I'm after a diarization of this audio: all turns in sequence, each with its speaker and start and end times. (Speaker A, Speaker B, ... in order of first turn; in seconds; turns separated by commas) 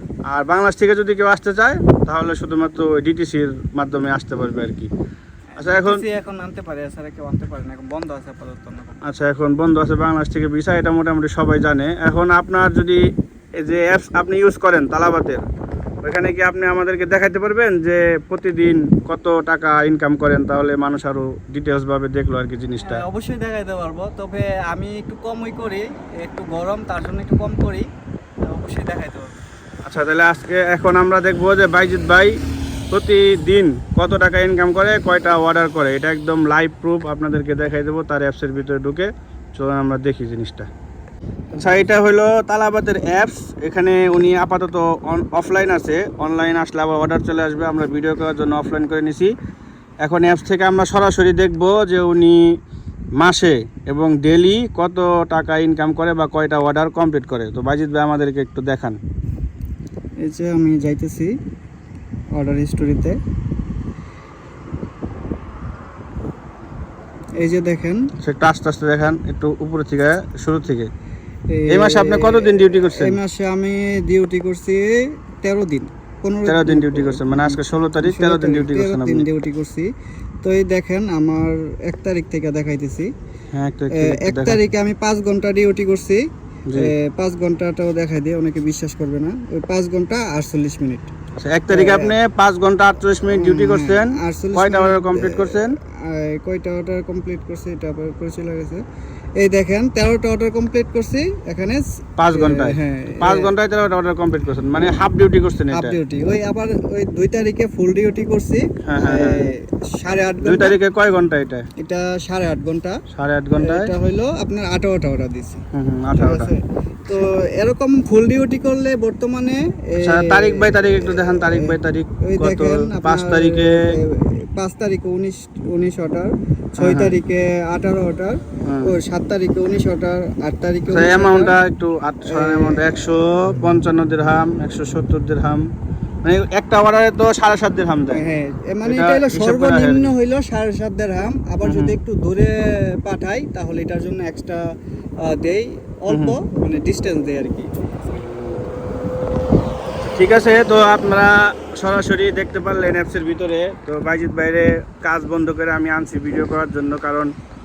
Speaker A: 0.3-4.9, Speaker B: 5.5-9.0, Speaker A: 5.6-6.0, Speaker A: 9.0-13.0, Speaker A: 13.6-15.4, Speaker A: 16.0-23.0, Speaker B: 22.8-27.9, Speaker B: 28.4-29.4, Speaker A: 29.9-32.4, Speaker A: 32.9-40.7, Speaker A: 41.5-49.3, Speaker A: 50.0-52.4, Speaker A: 53.2-59.0, Speaker B: 60.2-61.3, Speaker B: 62.3-63.2, Speaker B: 67.4-68.1, Speaker A: 68.2-70.9, Speaker B: 71.5-79.9, Speaker A: 71.7-73.2, Speaker A: 76.5-79.2, Speaker B: 80.4-83.1, Speaker A: 83.5-84.6, Speaker B: 83.9-91.1, Speaker A: 86.7-86.9, Speaker A: 91.4-95.8, Speaker B: 91.7-92.2, Speaker B: 93.3-98.8, Speaker B: 99.4-103.5, Speaker A: 102.2-106.0, Speaker B: 105.7-110.8, Speaker A: 108.8-109.5, Speaker A: 110.4-111.7, Speaker B: 111.8-113.0, Speaker A: 113.1-113.9, Speaker B: 113.5-115.6, Speaker A: 115.7-116.5, Speaker B: 116.1-131.6, Speaker A: 120.0-123.7, Speaker A: 126.8-127.1, Speaker A: 128.6-128.9, Speaker A: 130.9-135.6, Speaker B: 132.3-132.9, Speaker A: 136.2-138.2, Speaker B: 138.1-144.6, Speaker A: 138.8-140.1, Speaker A: 141.6-141.9, Speaker B: 145.2-147.7, Speaker A: 146.1-146.4, Speaker A: 148.1-148.6, Speaker A: 150.1-157.3